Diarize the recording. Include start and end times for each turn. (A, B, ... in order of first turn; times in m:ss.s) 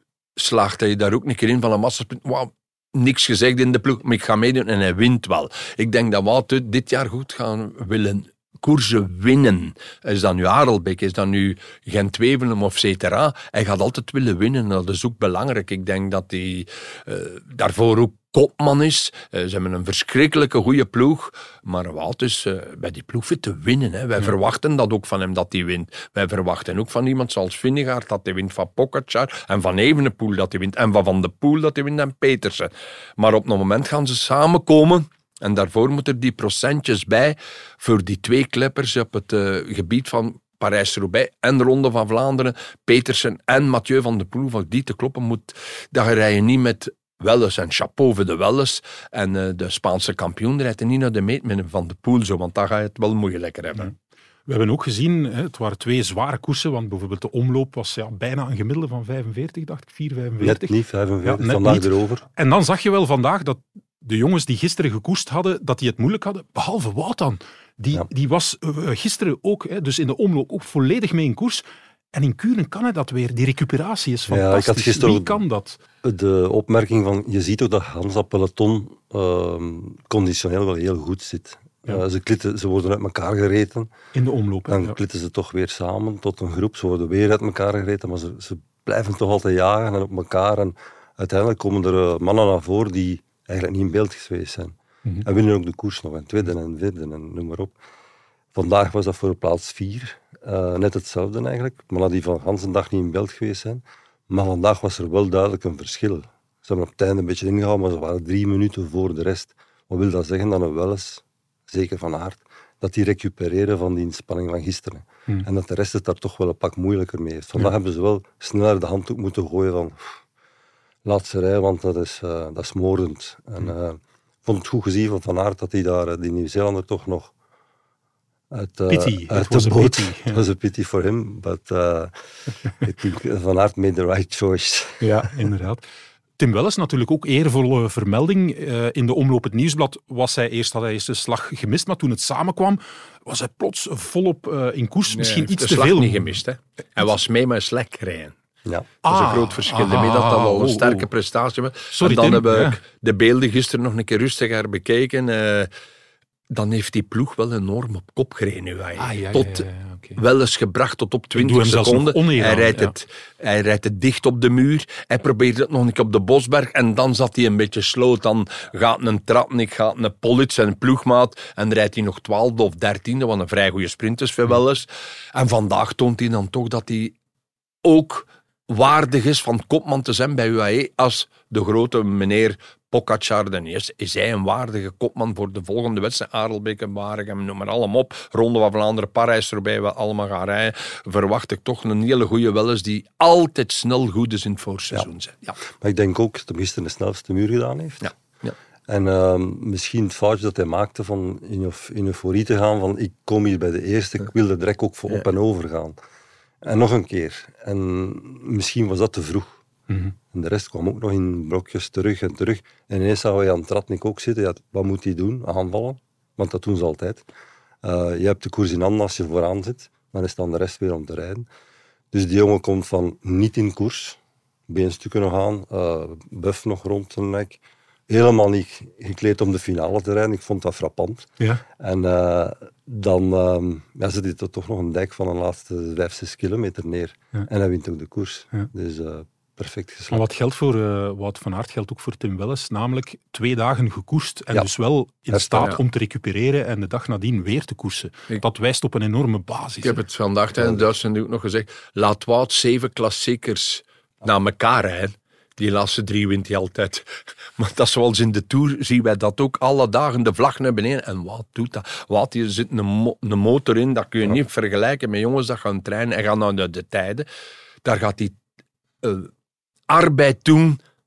0:00.4-0:53.9 A
0:54.5-1:00.7 B
1:00.4-1:02.2 C
1:01.2-1:15.8 B
1:14.3-1:15.4 C
1:16.0-1:23.9 C
1:24.1-1:25.0 B
1:24.7-1:37.8 C
1:38.5-2:00.2 C
2:01.0-2:07.3 C
2:08.5-2:12.1 C
2:08.9-2:10.4 B
2:12.8-2:15.1 C
2:15.0-2:15.8 B
2:16.4-2:26.4 B
2:25.1-2:28.3 A
2:29.0-2:31.1 B
2:29.1-2:35.7 A
2:31.9-2:32.8 B
2:36.5-2:57.1 A
2:39.0-2:40.2 B
2:41.4-2:42.9 B
2:57.8-3:15.6 A
3:15.8-3:18.1 C
3:18.0-3:18.6 A
3:18.9-3:26.0 C
3:26.6-3:29.6 C
3:30.3-3:37.3 C
3:37.8-3:41.5 C
3:42.1-4:00.2 C
4:00.1-4:10.0 B
4:05.3-4:05.8 C
4:09.8-4:17.1 A
4:17.6-4:27.3 A
4:27.8-4:28.4 A
4:29.0-4:29.3 A
4:29.9-4:30.8 A